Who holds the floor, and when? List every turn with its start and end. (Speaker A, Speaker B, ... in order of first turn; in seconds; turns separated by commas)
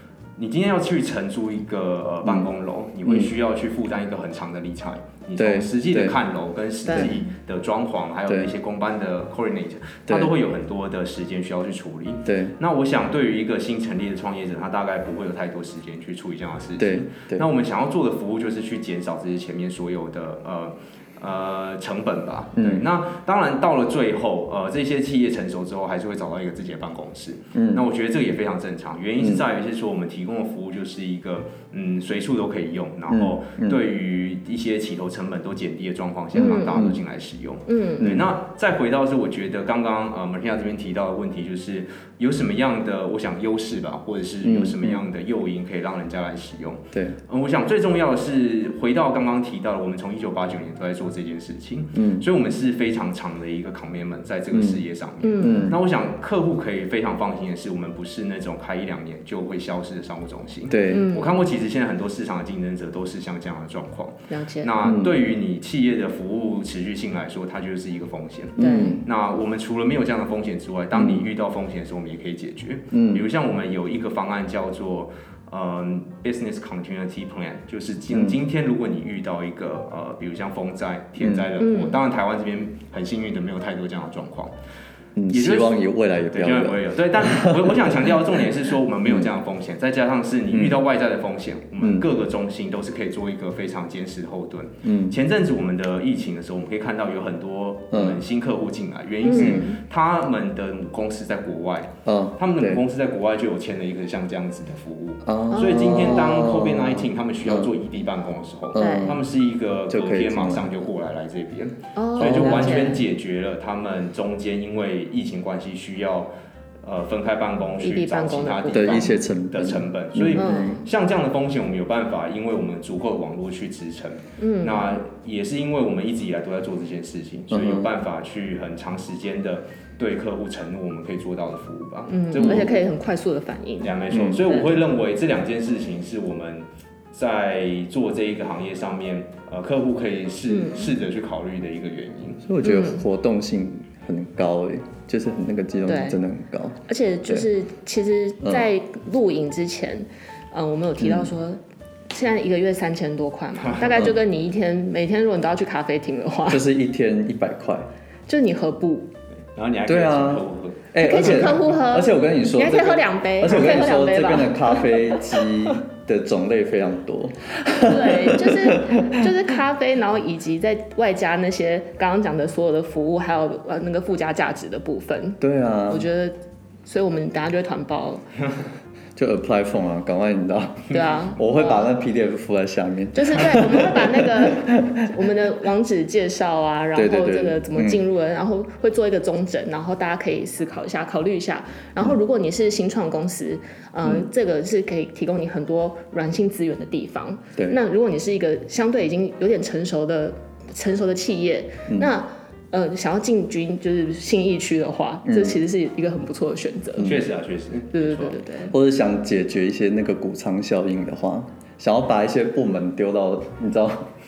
Speaker A: 0.4-84.5, Speaker B: 3.0-3.3, Speaker B: 5.4-6.2, Speaker C: 6.8-7.3, Speaker B: 8.3-8.5, Speaker B: 10.1-10.3, Speaker B: 12.2-12.6, Speaker B: 16.8-17.4, Speaker B: 22.6-22.8, Speaker B: 27.5-27.8, Speaker B: 29.2-29.4, Speaker B: 33.1-33.8, Speaker B: 36.3-37.0, Speaker C: 36.4-36.9, Speaker C: 37.7-38.1, Speaker B: 38.0-38.3, Speaker B: 44.4-45.0, Speaker B: 51.9-52.2, Speaker B: 54.5-54.8, Speaker C: 55.2-55.7, Speaker B: 55.4-55.8, Speaker B: 60.7-61.0, Speaker C: 60.9-61.3, Speaker C: 64.3-64.7, Speaker B: 64.8-65.2, Speaker C: 68.6-69.0, Speaker B: 68.6-69.0, Speaker B: 70.9-71.2, Speaker B: 72.9-73.2, Speaker B: 78.1-78.4, Speaker B: 81.2-81.5, Speaker C: 81.6-82.0, Speaker B: 85.2-88.2, Speaker A: 85.3-116.3, Speaker B: 90.5-90.8, Speaker B: 91.8-92.0, Speaker B: 94.8-95.2, Speaker B: 97.9-98.2, Speaker C: 99.2-99.8, Speaker B: 99.3-99.6, Speaker B: 102.0-102.8, Speaker B: 105.2-107.7, Speaker C: 105.5-106.3, Speaker B: 108.7-109.2, Speaker C: 108.8-109.1, Speaker B: 109.9-110.7, Speaker C: 111.9-113.0, Speaker B: 112.2-112.8, Speaker A: 116.8-132.8, Speaker C: 117.8-119.1, Speaker B: 118.7-120.8, Speaker C: 120.3-120.8, Speaker C: 124.4-124.9, Speaker B: 127.5-127.9, Speaker C: 132.1-134.8, Speaker B: 132.4-132.7, Speaker A: 133.8-142.4, Speaker B: 134.1-134.4, Speaker C: 140.5-140.9, Speaker B: 142.4-147.5, Speaker C: 142.6-143.0, Speaker C: 145.8-146.2, Speaker C: 146.8-151.6, Speaker B: 151.0-151.3, Speaker C: 152.1-156.6, Speaker B: 156.5-157.8, Speaker C: 158.3-159.1, Speaker A: 159.6-161.6, Speaker B: 159.8-169.3, Speaker C: 161.0-165.7, Speaker C: 167.8-178.2, Speaker B: 175.4-176.1, Speaker B: 179.2-185.1, Speaker C: 180.9-181.9, Speaker C: 183.1-207.2, Speaker B: 186.9-188.0, Speaker B: 205.2-205.6, Speaker B: 207.0-207.2, Speaker A: 207.0-208.4, Speaker C: 207.9-208.7, Speaker B: 208.7-214.1